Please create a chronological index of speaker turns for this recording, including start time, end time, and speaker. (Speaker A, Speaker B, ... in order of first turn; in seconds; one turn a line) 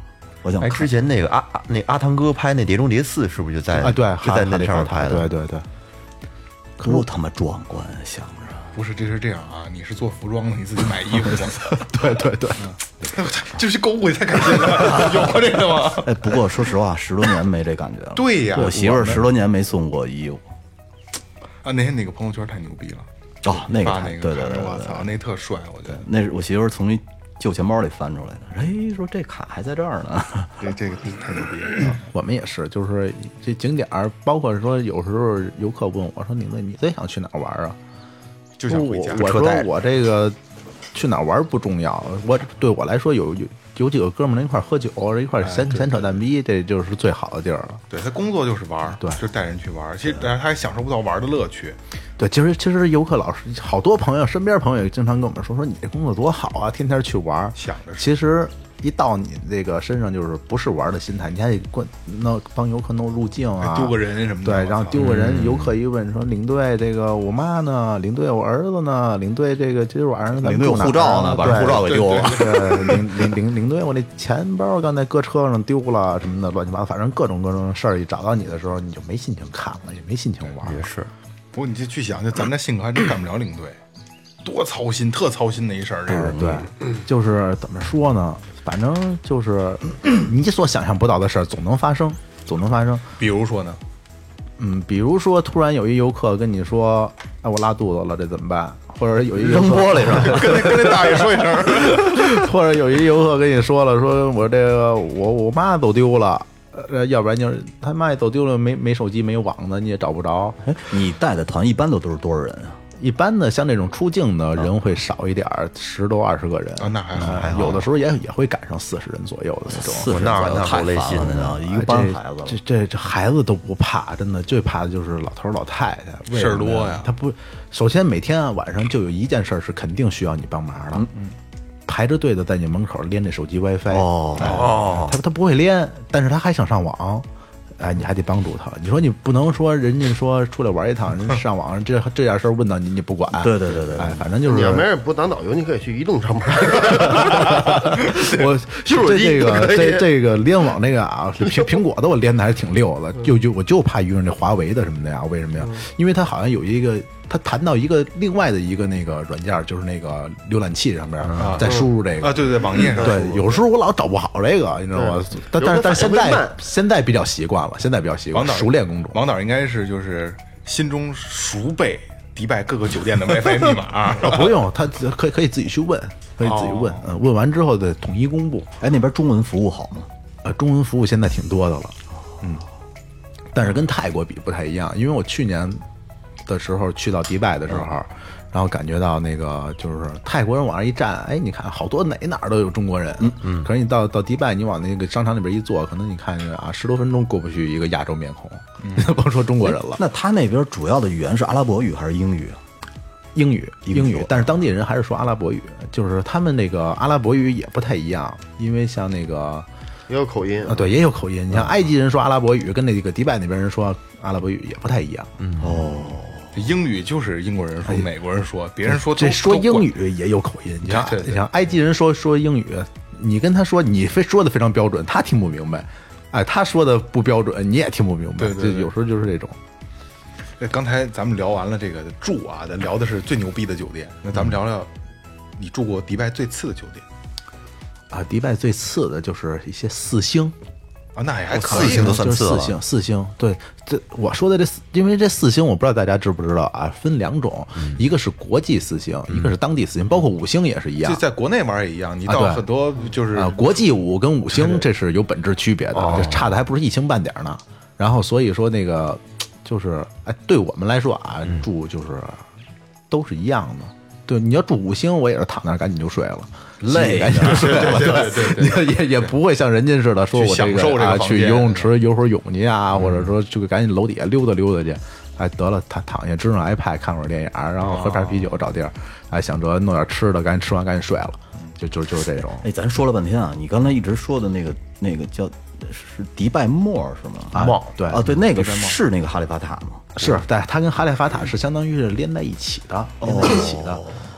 Speaker A: 0.4-0.9
Speaker B: 0.6-5.3
Speaker C: 3.8-5.6
Speaker C: 6.8-7.0
Speaker A: 6.8-8.7
Speaker D: 8.7-12.0
Speaker C: 11.7-12.7
Speaker D: 12.6-16.5
Speaker A: 14.7-20.4
Speaker D: 18.1-18.8
Speaker C: 18.5-19.3
Speaker D: 21.6-26.1
Speaker A: 23.4-25.1
Speaker A: 25.9-30.7
Speaker D: 30.6-32.0
Speaker C: 31.9-37.8
Speaker D: 38.6-39.5
Speaker C: 38.7-40.4
Speaker C: 40.9-47.8
Speaker D: 45.4-46.2
Speaker D: 47.9-51.8
Speaker C: 49.0-49.2
Speaker C: 52.2-80.8
Speaker D: 57.6-58.1
Speaker D: 63.6-65.0
Speaker A: 64.9-65.8
Speaker A: 70.4-72.8
Speaker D: 71.6-72.8
Speaker B: 80.7-81.1
Speaker D: 81.5-83.8
Speaker D: 84.4-86.5
Speaker C: 86.1-93.0
Speaker D: 93.2-93.8
Speaker C: 94.6-110.6
Speaker A: 99.3-101.2
Speaker D: 100.0-102.2
Speaker A: 110.6-112.8
Speaker C: 113.0-120.7
Speaker D: 116.8-117.8
Speaker B: 117.2-117.8
Speaker A: 119.7-122.6
Speaker B: 119.9-121.6
Speaker C: 121.4-131.1
Speaker D: 126.3-127.1
Speaker C: 131.9-137.2
Speaker A: 133.9-135.1
Speaker D: 134.4-134.8
Speaker C: 137.8-144.9
Speaker A: 143.3-144.2
Speaker E: 144.4-150.1
Speaker C: 147.5-169.2
Speaker D: 161.4-163.6
Speaker E: 161.6-161.9
Speaker E: 164.9-166.6
Speaker D: 168.3-174.6
Speaker C: 174.1-178.7
Speaker D: 176.4-177.1
Speaker A: 178.8-180.1
Speaker C: 180.4-182.6
Speaker C: 183.5-185.8
Speaker C: 186.4-200.0
Speaker A: 193.2-193.6
Speaker A: 199.6-202.6
Speaker C: 203.3-209.7
Speaker A: 203.9-204.5
Speaker E: 210.1-210.9
Speaker C: 210.6-215.4
Speaker A: 215.6-216.5
Speaker D: 216.5-219.9
Speaker C: 218.9-229.6
Speaker D: 220.8-221.6
Speaker D: 228.4-228.9
Speaker D: 230.6-234.9
Speaker D: 235.6-237.0
Speaker C: 238.1-240.5
Speaker D: 241.2-242.2
Speaker B: 241.5-242.8
Speaker C: 241.7-251.2
Speaker D: 251.0-253.8
Speaker C: 252.3-252.7
Speaker C: 253.3-262.4
Speaker C: 263.1-282.6
Speaker A: 266.8-268.4
Speaker D: 267.4-269.3
Speaker D: 270.3-271.9
Speaker D: 277.8-278.6
Speaker A: 282.6-290.1
Speaker C: 287.5-288.2
Speaker D: 288.4-288.9
Speaker C: 290.1-294.0
Speaker A: 293.2-294.2